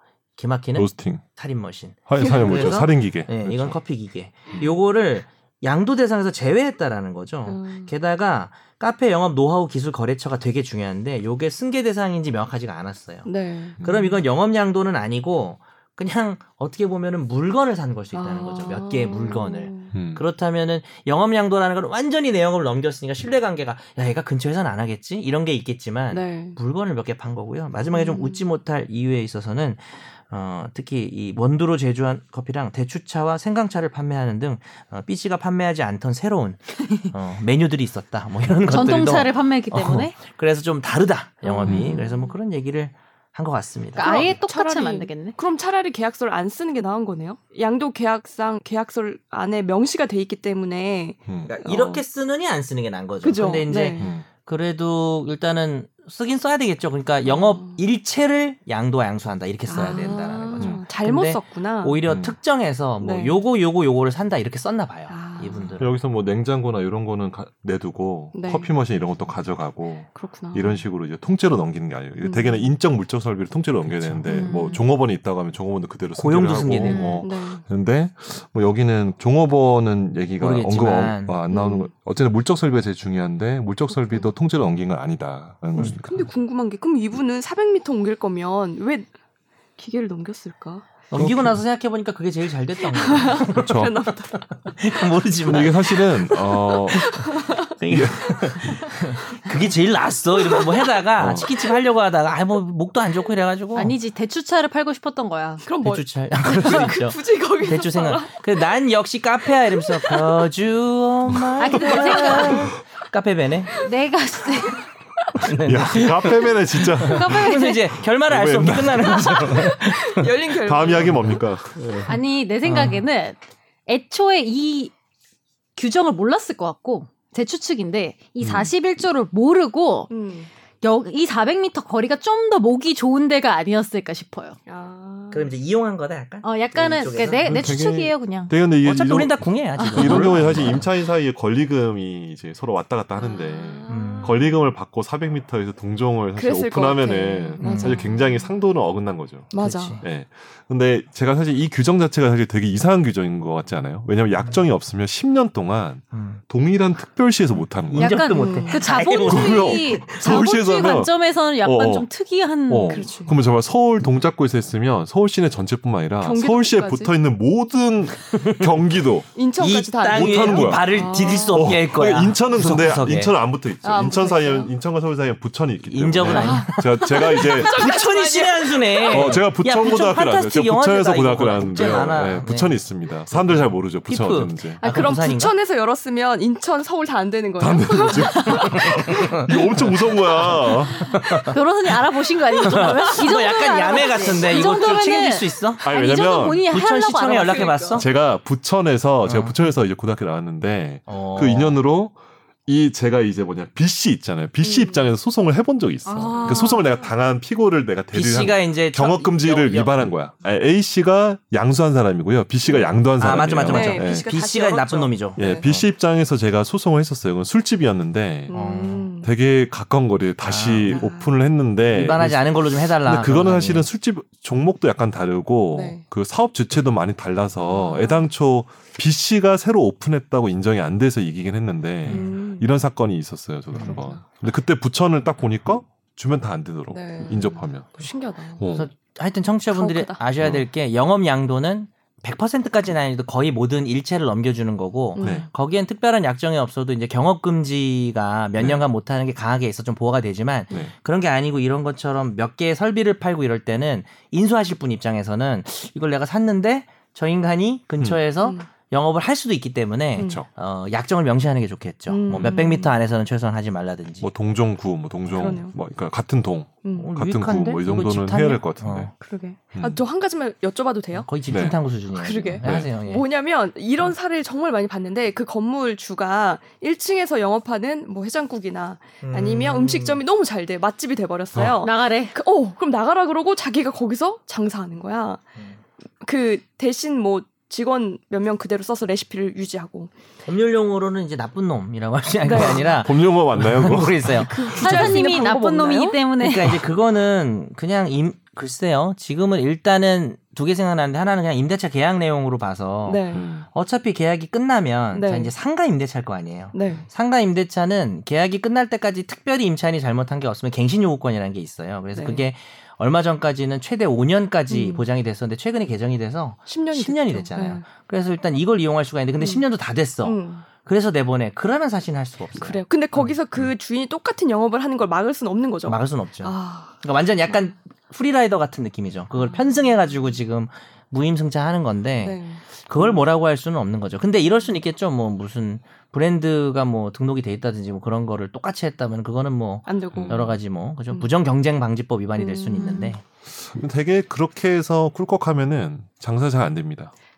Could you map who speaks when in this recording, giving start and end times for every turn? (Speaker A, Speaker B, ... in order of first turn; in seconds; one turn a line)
Speaker A: 0.4-13.3
Speaker B: 0.7-1.2
Speaker B: 2.1-3.8
Speaker C: 2.2-2.9
Speaker C: 7.4-7.9
Speaker C: 13.2-13.8
Speaker B: 13.8-14.2
Speaker A: 13.8-44.3
Speaker C: 18.1-19.9
Speaker B: 19.9-20.2
Speaker C: 26.1-26.6
Speaker C: 27.9-28.4
Speaker D: 38.7-40.2
Speaker C: 41.5-42.3
Speaker B: 41.6-42.0
Speaker D: 44.0-45.4
Speaker C: 44.0-51.2
Speaker B: 51.3-52.0
Speaker A: 51.4-65.9
Speaker C: 53.2-54.1
Speaker B: 54.0-54.3
Speaker C: 57.2-57.8
Speaker C: 59.7-62.0
Speaker B: 59.7-60.8
Speaker B: 62.1-62.4
Speaker C: 63.0-63.4
Speaker C: 65.1-65.8
Speaker B: 65.8-86.3
Speaker C: 68.3-68.7
Speaker C: 70.1-70.8
Speaker C: 72.2-72.7
Speaker A: 73.9-74.5
Speaker D: 74.3-74.9
Speaker A: 76.2-77.2
Speaker D: 76.8-77.2
Speaker C: 77.2-77.6
Speaker A: 80.4-81.4
Speaker C: 81.5-81.9
Speaker C: 83.9-84.3
Speaker C: 86.0-89.1
Speaker C: 89.8-90.9
Speaker A: 91.1-96.4
Speaker B: 91.1-91.6
Speaker C: 92.9-95.7
Speaker B: 93.4-94.0
Speaker B: 95.4-97.3
Speaker C: 96.7-97.8
Speaker A: 97.8-103.9
Speaker B: 97.8-98.8
Speaker C: 100.4-100.9
Speaker B: 101.2-101.5
Speaker D: 103.7-105.7
Speaker C: 105.6-108.7
Speaker A: 105.8-113.9
Speaker D: 106.6-106.9
Speaker C: 109.7-110.4
Speaker D: 111.6-112.7
Speaker C: 111.7-112.7
Speaker D: 113.8-114.9
Speaker C: 114.5-114.8
Speaker A: 115.4-120.3
Speaker B: 115.4-117.6
Speaker C: 117.0-117.5
Speaker D: 117.1-117.8
Speaker B: 118.3-119.8
Speaker C: 119.2-121.4
Speaker B: 120.6-121.8
Speaker A: 121.0-122.1
Speaker D: 122.1-124.9
Speaker A: 122.6-123.0
Speaker D: 125.8-130.1
Speaker B: 128.4-128.7
Speaker C: 130.1-130.5
Speaker D: 130.8-134.6
Speaker C: 134.7-135.5
Speaker A: 135.3-137.7
Speaker D: 136.4-138.5
Speaker B: 137.4-149.5
Speaker A: 138.8-140.9
Speaker D: 139.8-140.4
Speaker C: 143.2-144.6
Speaker A: 143.9-144.4
Speaker C: 146.3-148.5
Speaker A: 147.6-148.1
Speaker C: 149.5-150.0
Speaker A: 149.6-150.1
Speaker B: 150.0-158.3
Speaker A: 156.1-156.4
Speaker A: 157.9-160.4
Speaker D: 157.9-163.1
Speaker C: 158.3-158.8
Speaker B: 159.1-162.1
Speaker B: 162.7-169.3
Speaker C: 162.9-163.3
Speaker C: 166.2-167.1
Speaker A: 168.3-168.7
Speaker C: 169.3-171.8
Speaker A: 169.6-173.4
Speaker B: 170.1-177.9
Speaker C: 173.8-174.7
Speaker A: 175.8-182.8
Speaker C: 176.2-179.4
Speaker B: 179.1-184.8
Speaker A: 183.3-185.5
Speaker C: 184.8-189.6
Speaker B: 187.6-191.2
Speaker A: 188.8-189.5
Speaker A: 190.4-191.6
Speaker D: 191.4-197.9
Speaker A: 192.6-195.9
Speaker C: 194.3-194.8
Speaker B: 195.8-196.7
Speaker A: 196.7-198.1
Speaker C: 197.4-198.0
Speaker B: 198.0-202.2
Speaker A: 199.2-199.6
Speaker A: 201.1-201.8
Speaker B: 202.7-214.3
Speaker C: 204.6-205.1
Speaker D: 206.1-206.9
Speaker C: 206.2-207.1
Speaker A: 208.1-210.1
Speaker A: 212.7-215.8
Speaker C: 213.6-215.7
Speaker B: 215.4-218.5
Speaker C: 218.5-219.3
Speaker A: 218.5-219.1
Speaker B: 219.2-238.0
Speaker A: 220.4-221.1
Speaker C: 220.9-221.3
Speaker A: 221.9-223.9
Speaker C: 225.7-226.0
Speaker C: 227.7-228.3
Speaker A: 232.0-232.3
Speaker C: 232.1-232.7
Speaker A: 233.7-234.0
Speaker C: 233.8-234.2
Speaker C: 236.9-238.6
Speaker B: 238.6-238.9
Speaker A: 238.7-264.3
Speaker C: 239.7-240.2
Speaker B: 240.4-240.6
Speaker C: 245.1-245.5
Speaker B: 245.2-245.5
Speaker B: 248.6-248.8
Speaker C: 258.4-258.7
Speaker B: 260.1-260.5
Speaker C: 260.2-260.4
Speaker C: 262.1-262.9
Speaker B: 262.3-262.6
Speaker B: 264.2-269.1
Speaker C: 265.3-265.8
Speaker C: 266.8-267.1
Speaker A: 267.0-269.1
Speaker C: 269.2-271.3
Speaker B: 269.7-270.0
Speaker A: 271.1-273.2
Speaker B: 271.5-271.8
Speaker C: 272.1-285.5
Speaker B: 272.6-272.9
Speaker A: 279.2-280.2
Speaker D: 281.8-282.4
Speaker C: 286.2-290.1
Speaker A: 290.4-295.1
Speaker C: 292.4-293.0
Speaker B: 292.5-294.7
Speaker C: 294.4-296.2
Speaker D: 294.7-296.8
Speaker A: 296.4-322.8
Speaker C: 303.0-303.5
Speaker B: 303.3-303.6
Speaker C: 305.1-305.5
Speaker C: 306.7-307.1
Speaker C: 312.1-312.4
Speaker C: 314.7-315.1
Speaker C: 316.6-317.9
Speaker C: 319.4-319.6
Speaker C: 320.2-320.7
Speaker C: 322.6-327.6
Speaker A: 325.9-343.2
Speaker C: 332.2-332.6
Speaker C: 339.9-341.3
Speaker B: 340.1-340.5
Speaker C: 342.4-343.1
Speaker D: 342.7-343.1
Speaker B: 343.5-347.1